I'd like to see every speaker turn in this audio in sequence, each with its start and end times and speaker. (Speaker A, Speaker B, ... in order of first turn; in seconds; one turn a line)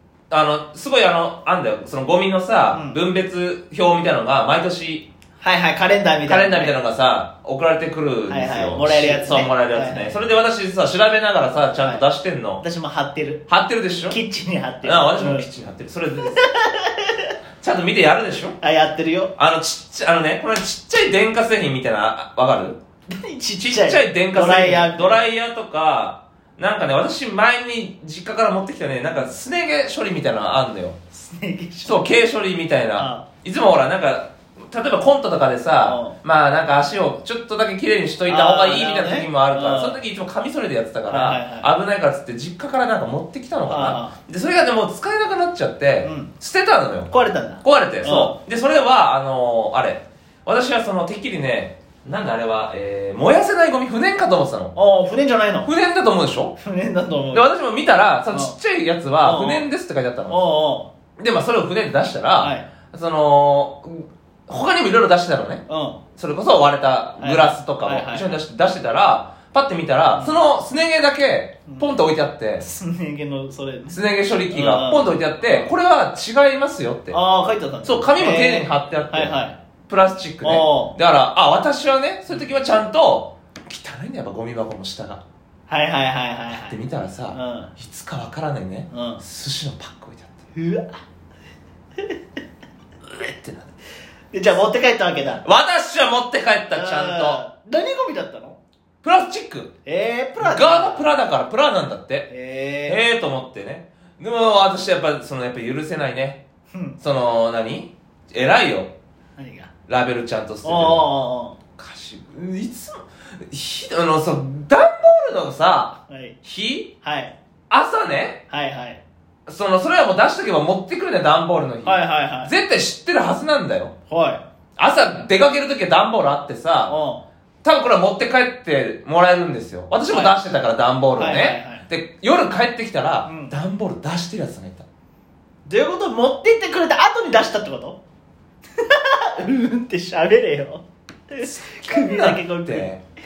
Speaker A: 0.3-5.1
Speaker B: 2.7-3.0
Speaker B: 5.4-6.7
Speaker A: 6.2-12.6
Speaker B: 8.3-10.2
Speaker B: 11.8-12.1
Speaker B: 12.6-13.4
Speaker A: 13.5-14.2
Speaker B: 14.1-15.5
Speaker A: 14.8-16.4
Speaker B: 16.3-17.3
Speaker A: 17.6-18.6
Speaker B: 18.6-19.3
Speaker A: 19.4-22.8
Speaker B: 23.1-25.2
Speaker A: 23.6-31.0
Speaker B: 31.1-32.1
Speaker A: 31.8-54.7
Speaker B: 33.0-33.3
Speaker B: 35.8-36.2
Speaker B: 38.3-40.0
Speaker B: 41.1-41.7
Speaker B: 43.6-44.1
Speaker B: 46.0-46.3
Speaker B: 47.1-48.4
Speaker B: 54.7-55.7
Speaker A: 55.6-56.5
Speaker B: 56.6-57.5
Speaker A: 57.3-60.4
Speaker B: 58.3-58.5
Speaker B: 59.2-59.7
Speaker B: 60.3-60.9
Speaker A: 61.2-65.6
Speaker B: 62.4-62.7
Speaker B: 65.7-66.0
Speaker A: 66.2-72.7
Speaker B: 67.2-68.4
Speaker B: 71.7-72.0
Speaker B: 72.6-74.0
Speaker A: 73.9-77.2
Speaker B: 74.5-75.7
Speaker B: 77.1-79.6
Speaker A: 77.8-79.4
Speaker A: 79.9-85.2
Speaker B: 80.4-80.9
Speaker B: 85.7-86.8
Speaker A: 86.5-90.4
Speaker B: 87.3-87.7
Speaker B: 88.9-89.2
Speaker B: 90.5-91.0
Speaker A: 93.0-93.7
Speaker B: 94.3-95.4
Speaker A: 95.4-97.4
Speaker B: 96.7-98.6
Speaker A: 99.0-99.7
Speaker B: 99.8-101.0
Speaker A: 100.4-102.3
Speaker B: 102.3-103.0
Speaker A: 102.9-106.4
Speaker B: 106.7-107.0
Speaker A: 107.0-108.9
Speaker B: 109.4-109.7
Speaker A: 109.9-111.1
Speaker B: 110.6-111.6
Speaker A: 111.8-116.9
Speaker B: 116.1-116.4
Speaker B: 117.0-117.3
Speaker A: 117.7-118.4
Speaker B: 118.5-119.0
Speaker A: 119.5-123.9
Speaker B: 121.8-122.5
Speaker B: 124.1-124.4
Speaker A: 124.8-127.0
Speaker B: 126.9-127.2
Speaker A: 127.6-134.8
Speaker B: 130.1-130.3
Speaker B: 131.2-131.8
Speaker B: 133.2-133.5
Speaker B: 135.7-138.0
Speaker B: 138.8-142.9
Speaker A: 141.4-143.0